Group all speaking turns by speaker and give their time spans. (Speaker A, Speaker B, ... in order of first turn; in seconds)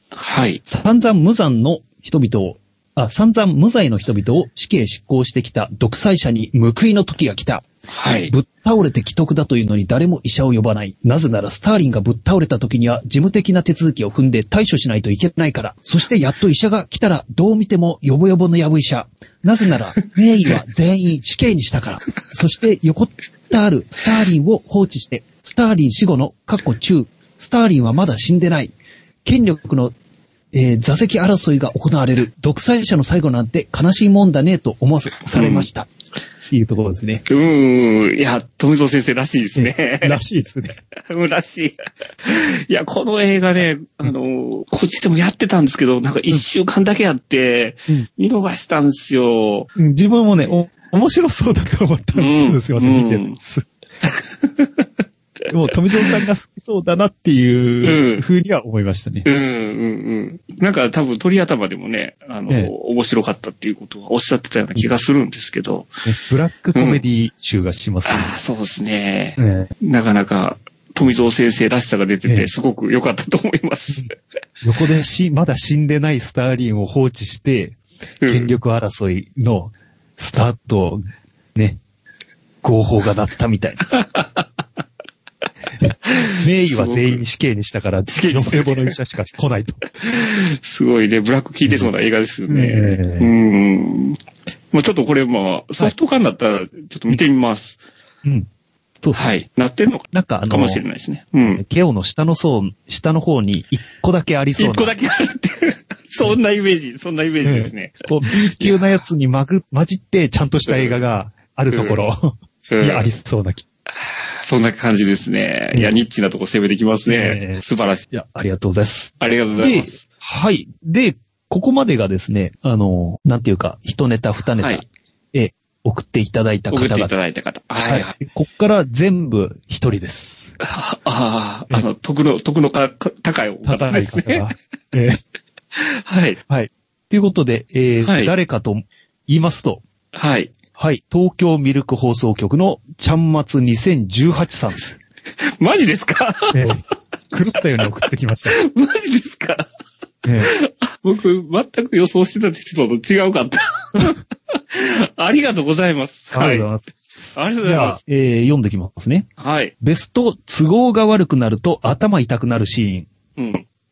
Speaker A: 0.1-0.6, 7.9-8.3, 35.3-35.7, 37.3-40.2, 41.0-49.7, 52.1-53.4, 54.0-54.9, 57.8-58.2, 59.2-65.9, 66.8-67.0, 68.1-74.1, 78.2-78.5, 83.9-84.5, 86.1-87.2, 88.1-88.9, 90.0-94.2, 94.7-97.8, 99.1-101.6, 104.6-108.8, 110.7-111.0, 111.7-112.0, 112.7-113.1, 113.9-118.1, 119.2-120.0, 124.6-124.8, 126.7-128.2, 130.6-134.5, 135.7-136.4, 138.0-138.3, 140.1-140.5, 145.4-146.7, 148.5-149.7, 150.4-156.7, 157.3-158.0, 159.4-159.7, 163.4-163.7
Speaker B: 0.7-7.7, 8.3-28.7, 29.2-29.9, 30.5-35.9, 36.5-37.2, 39.6-40.8, 49.8-53.7, 55.5-59.3, 66.0-68.3, 69.4-69.7, 74.6-81.8, 82.6-83.8, 85.8-89.8, 92.5-93.3, 99.0-99.4, 100.1-100.8, 101.4-104.9, 107.4-113.7, 117.1-127.1, 127.9-130.6, 133.7-135.2, 136.5-139.8, 140.8-145.0, 146.5-148.6, 150.2-150.5, 156.3-156.9, 157.6-159.3, 159.8-163.1